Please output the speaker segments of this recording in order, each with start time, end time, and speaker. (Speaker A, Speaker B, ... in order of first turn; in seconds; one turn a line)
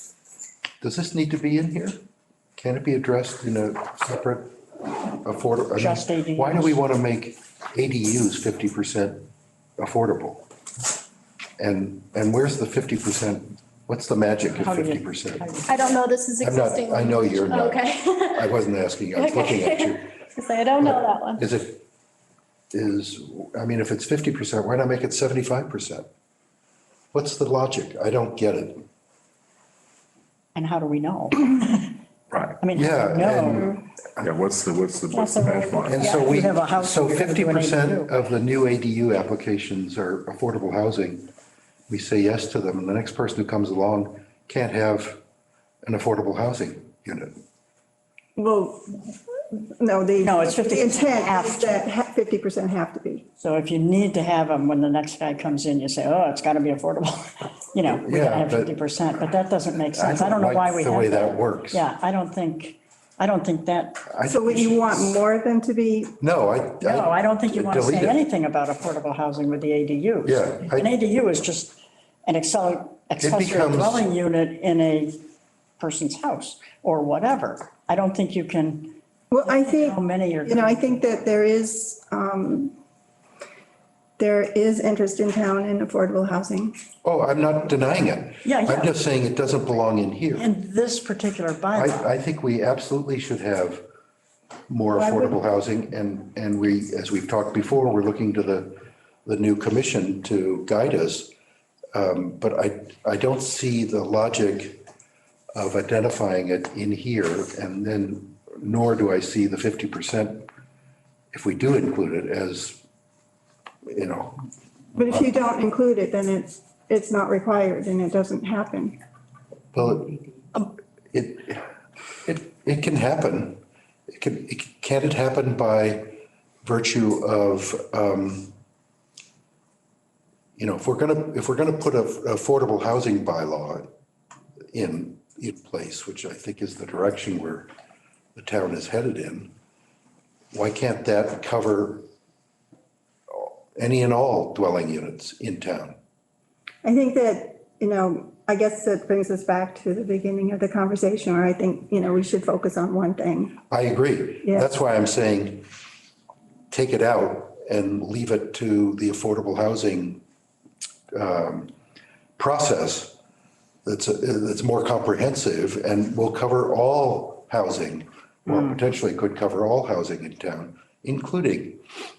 Speaker A: 0.8-2.0
Speaker A: 2.6-4.6
Speaker A: 5.2-10.4
Speaker B: 5.8-6.8
Speaker A: 11.6-15.4
Speaker B: 14.5-15.8
Speaker C: 15.7-18.6
Speaker A: 16.4-20.0
Speaker C: 19.1-21.4
Speaker A: 20.8-21.8
Speaker A: 22.7-26.1
Speaker A: 27.1-28.8
Speaker B: 30.5-32.0
Speaker B: 32.6-33.7
Speaker A: 32.7-34.3
Speaker D: 34.2-36.2
Speaker B: 35.2-38.1
Speaker A: 35.8-41.3
Speaker A: 41.9-45.2
Speaker A: 45.8-47.3
Speaker E: 48.4-49.0
Speaker E: 49.5-53.2
Speaker B: 50.2-51.8
Speaker B: 53.4-64.0
Speaker A: 57.9-58.8
Speaker A: 59.9-61.8
Speaker A: 64.1-64.9
Speaker E: 64.3-66.1
Speaker A: 66.2-68.2
Speaker B: 66.8-75.2
Speaker A: 70.2-70.9
Speaker A: 73.2-74.1
Speaker B: 75.8-81.0
Speaker E: 79.3-82.7
Speaker E: 84.2-86.7
Speaker A: 87.0-90.5
Speaker B: 88.4-88.9
Speaker B: 90.3-92.0
Speaker A: 91.7-93.8
Speaker A: 94.7-101.3
Speaker E: 94.9-95.4
Speaker A: 101.9-104.8
Speaker A: 105.5-110.5
Speaker A: 111.3-112.8
Speaker A: 113.9-114.4
Speaker E: 114.9-119.0
Speaker A: 119.7-121.7
Speaker A: 122.2-128.5
Speaker A: 130.6-133.9
Speaker A: 134.7-137.7
Speaker A: 138.3-139.5
Speaker A: 140.5-142.1
Speaker A: 143.3-146.0
Speaker E: 146.8-153.6
Speaker A: 153.7-155.7
Speaker A: 156.7-160.2
Speaker A: 161.1-161.7
Speaker A: 162.4-163.2
Speaker A: 163.8-171.8